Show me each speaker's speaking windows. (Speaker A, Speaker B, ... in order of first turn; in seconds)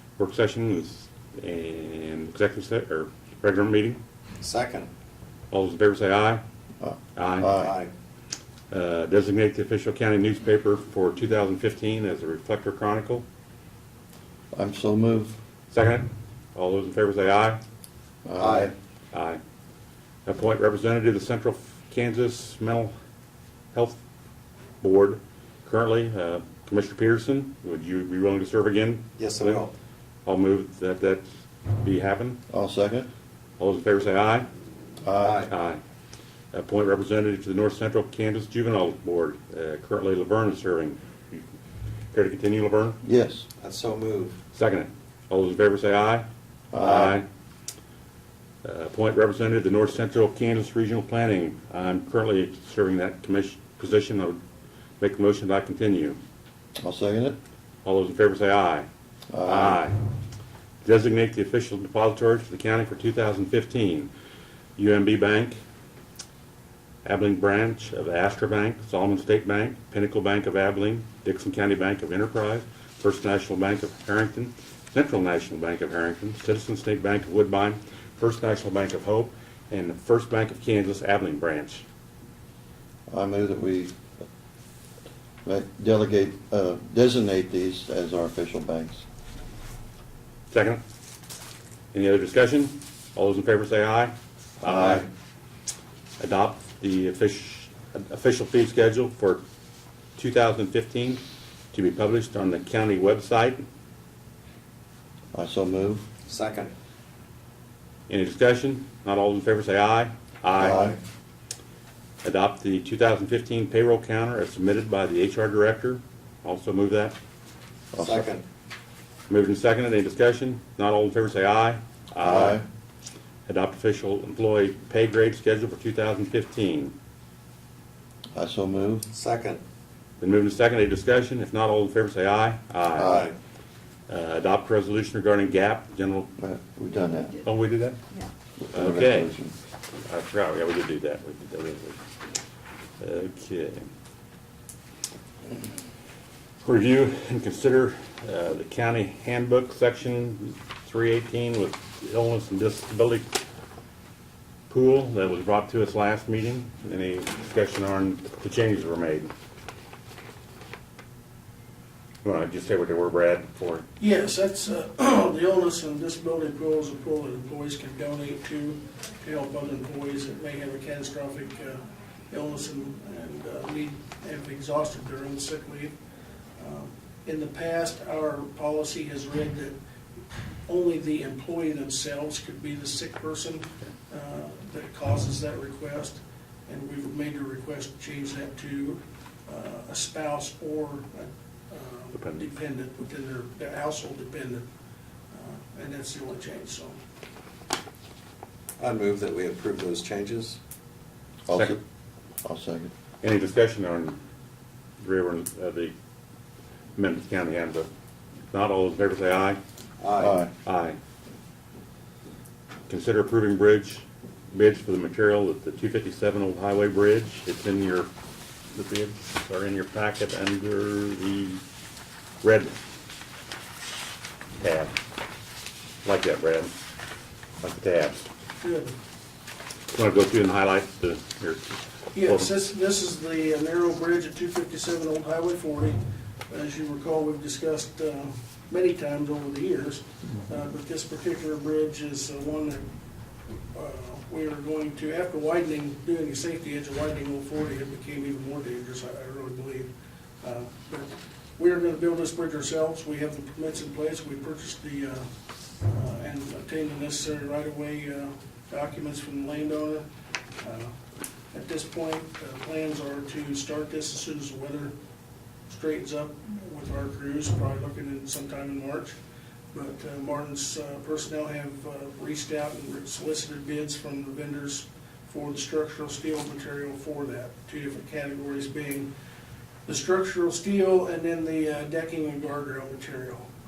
Speaker A: 0.2-4.0, 5.5-6.4, 7.2-7.5, 8.7-13.2, 15.7-17.6, 19.1-19.4, 20.3-22.9, 23.7-24.0, 24.8-29.7, 30.3-31.3, 31.8-32.4, 33.6-34.5, 35.5-35.8, 36.5-41.4, 42.1-43.0, 44.5-47.2, 48.6-54.4, 55.0-56.2, 57.8-58.9, 59.5-60.0, 60.8-64.1, 64.8-65.6, 67.0-81.8, 90.5-90.8, 91.9-95.1, 96.2-99.4, 100.2-101.2, 101.7-103.7, 108.1-111.0, 112.2-117.2, 119.3-122.6, 123.5-126.9, 130.2-133.2, 134.1-136.3, 137.4-138.0, 138.7-139.3, 140.1-142.0, 143.0-143.9, 146.6-153.2, 154.7-159.3, 162.2-163.9, 192.1-192.4, 201.5-201.8, 203.2-204.2, 205.0-205.9, 207.0-207.9, 208.5-209.6, 210.7-211.0, 212.9-218.1, 218.7-221.6, 222.4-222.8, 224.6-224.9, 226.1-226.8, 227.6-228.2, 229.9-232.5
Speaker B: 4.4-4.9, 7.6-7.9, 18.4-18.7, 29.2-29.7, 35.2-35.5, 43.6-44.4, 106.3-106.7, 110.6-111.0, 118.0-118.5, 129.1-129.6, 133.0-133.4, 198.8-200.6, 210.0-210.4
Speaker C: 6.8-7.8, 14.5-15.4, 18.2-18.7, 32.5-33.1, 35.0-35.5, 43.0-43.5, 46.7-47.2, 56.8-57.4, 59.3-59.8, 83.1-84.0, 85.5-89.0, 94.7-95.0, 105.3-106.1, 117.9-118.3, 122.2-122.6, 128.3-129.1, 136.4-137.4, 138.6-139.5, 201.4-201.8, 202.4-202.9, 210.2-210.5
Speaker D: 164.0-175.9, 176.6-179.8, 180.7-194.7, 195.3-197.0, 228.6-228.9, 232.1-236.0, 236.5-242.8, 243.7-249.9, 250.4-255.3, 255.9-260.1, 260.6-260.9, 261.5-264.9, 265.7-269.2, 269.7-279.1, 279.9-283.5